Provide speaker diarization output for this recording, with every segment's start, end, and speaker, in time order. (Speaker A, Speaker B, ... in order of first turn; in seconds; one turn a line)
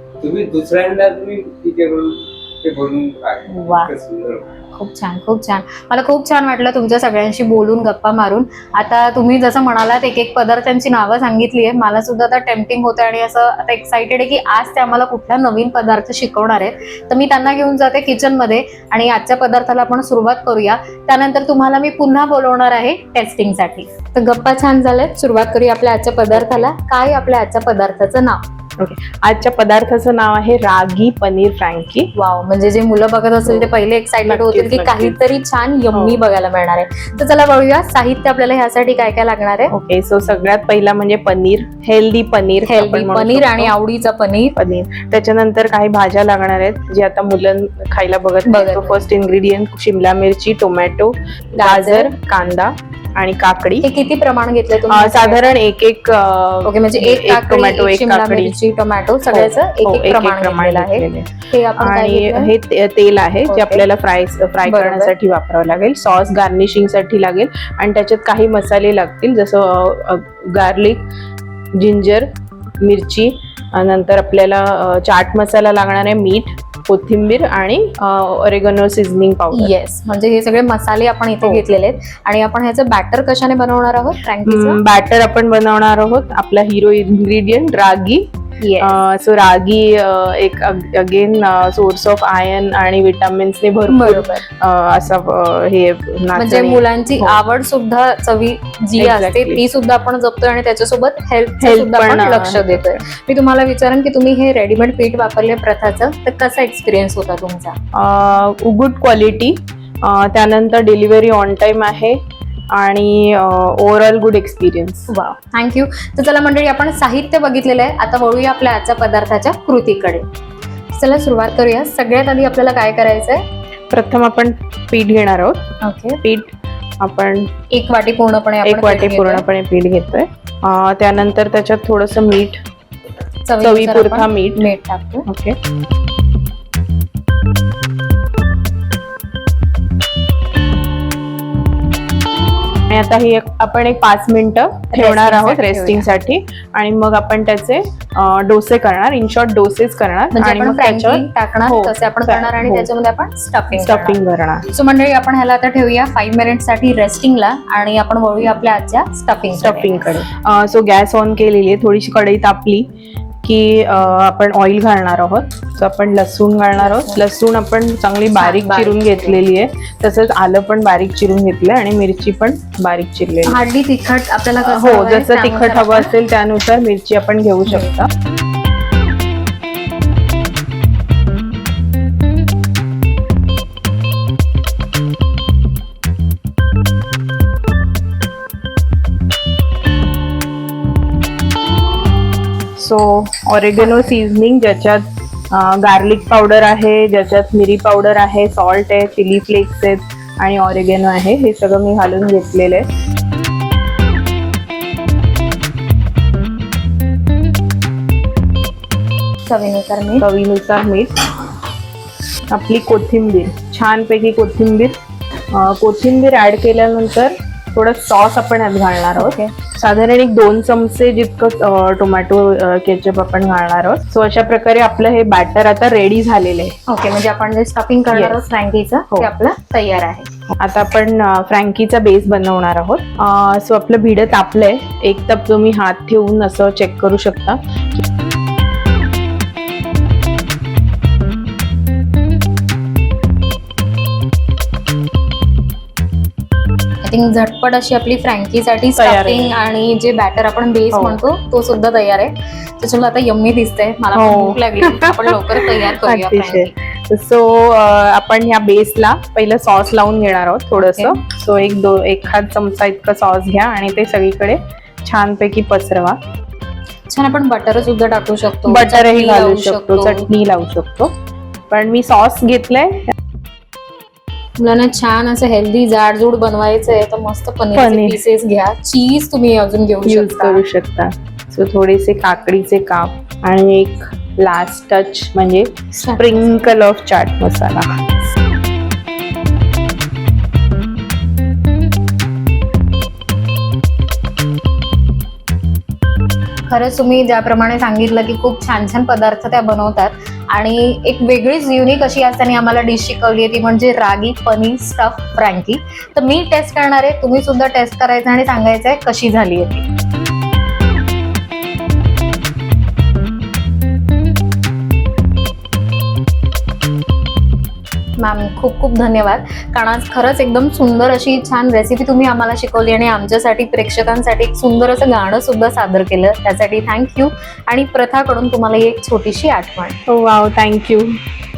Speaker A: 0.2-4.5
Speaker B: 3.5-3.9
Speaker B: 4.7-28.4
Speaker C: 26.3-26.7
Speaker C: 28.8-32.1
Speaker B: 32.1-39.7
Speaker C: 33.4-33.7
Speaker C: 34.2-35.2
Speaker C: 35.9-36.2
Speaker C: 39.7-43.7
Speaker B: 42.6-44.5
Speaker C: 44.5-53.9
Speaker B: 48.5-49.0
Speaker B: 51.6-52.1
Speaker B: 53.8-55.4
Speaker C: 54.9-58.6
Speaker B: 56.6-62.5
Speaker C: 59.3-71.0
Speaker B: 63.5-63.9
Speaker B: 64.7-65.1
Speaker C: 71.8-72.3
Speaker C: 72.8-79.7
Speaker B: 79.5-84.8
Speaker C: 84.5-88.3
Speaker B: 88.6-89.0
Speaker C: 88.8-97.4
Speaker B: 93.9-94.4
Speaker B: 96.3-107.8
Speaker C: 99.0-99.6
Speaker C: 101.6-103.0
Speaker C: 107.9-112.2
Speaker C: 112.7-115.1
Speaker B: 115.1-120.2
Speaker B: 120.9-123.4
Speaker C: 123.9-125.6
Speaker B: 125.8-126.2
Speaker C: 126.2-127.5
Speaker B: 127.7-129.4
Speaker C: 128.6-132.6
Speaker B: 133.4-135.2
Speaker C: 133.6-134.7
Speaker C: 135.3-135.6
Speaker C: 142.9-152.9
Speaker B: 144.9-146.1
Speaker B: 150.3-160.1
Speaker C: 153.7-154.7
Speaker C: 159.5-162.9
Speaker C: 163.4-173.6
Speaker B: 166.8-167.2
Speaker B: 168.4-169.4
Speaker B: 173.4-176.1
Speaker C: 174.6-178.1
Speaker C: 192.8-202.8
Speaker B: 209.4-210.2
Speaker C: 210.2-211.3
Speaker C: 212.5-214.9
Speaker C: 215.5-226.7
Speaker B: 219.2-219.5
Speaker B: 226.9-230.3
Speaker C: 228.1-228.4
Speaker C: 230.6-238.0
Speaker B: 247.0-256.7
Speaker C: 248.9-249.5
Speaker C: 250.9-251.2
Speaker C: 254.1-266.2
Speaker B: 260.7-261.2
Speaker B: 267.1-270.3
Speaker C: 268.6-271.1
Speaker C: 271.7-273.1
Speaker B: 274.6-280.6
Speaker C: 277.7-278.2
Speaker C: 280.0-288.0
Speaker B: 285.9-286.5
Speaker B: 296.7-309.8
Speaker B: 318.2-330.0
Speaker C: 330.1-331.1